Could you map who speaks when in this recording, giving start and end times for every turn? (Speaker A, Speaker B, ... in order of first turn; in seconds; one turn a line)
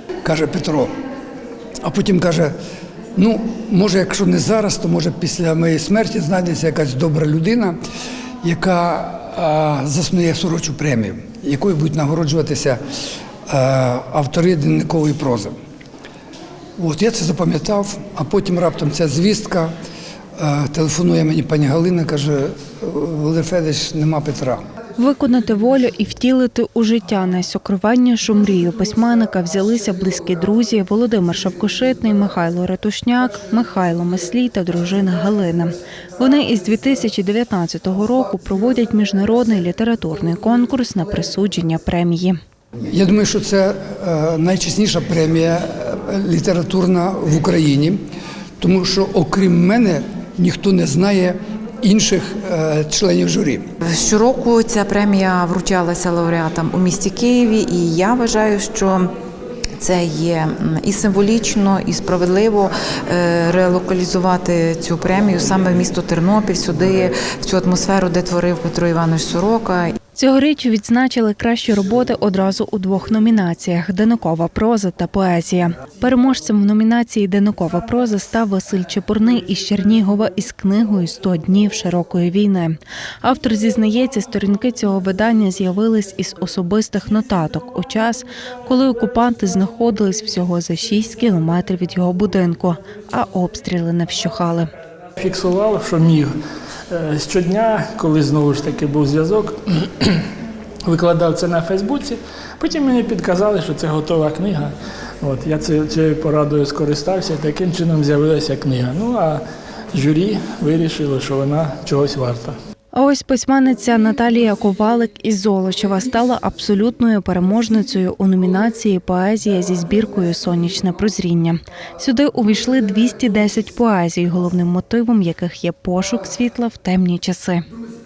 Speaker A: 0.2-0.9
Speaker A: 1.8-2.5
Speaker A: 3.2-7.8
Speaker A: 8.4-12.8
Speaker A: 13.5-15.5
Speaker A: 16.8-19.7
Speaker A: 20.4-24.6
Speaker B: 25.0-42.4
Speaker A: 42.9-48.0
Speaker A: 48.6-53.6
Speaker C: 53.8-59.1
Speaker C: 59.8-70.0
Speaker B: 70.2-94.7
Speaker D: 95.2-96.3
Speaker D: 96.9-100.2
Speaker D: 100.8-109.4
Speaker D: 109.9-112.6
Speaker B: 112.9-127.6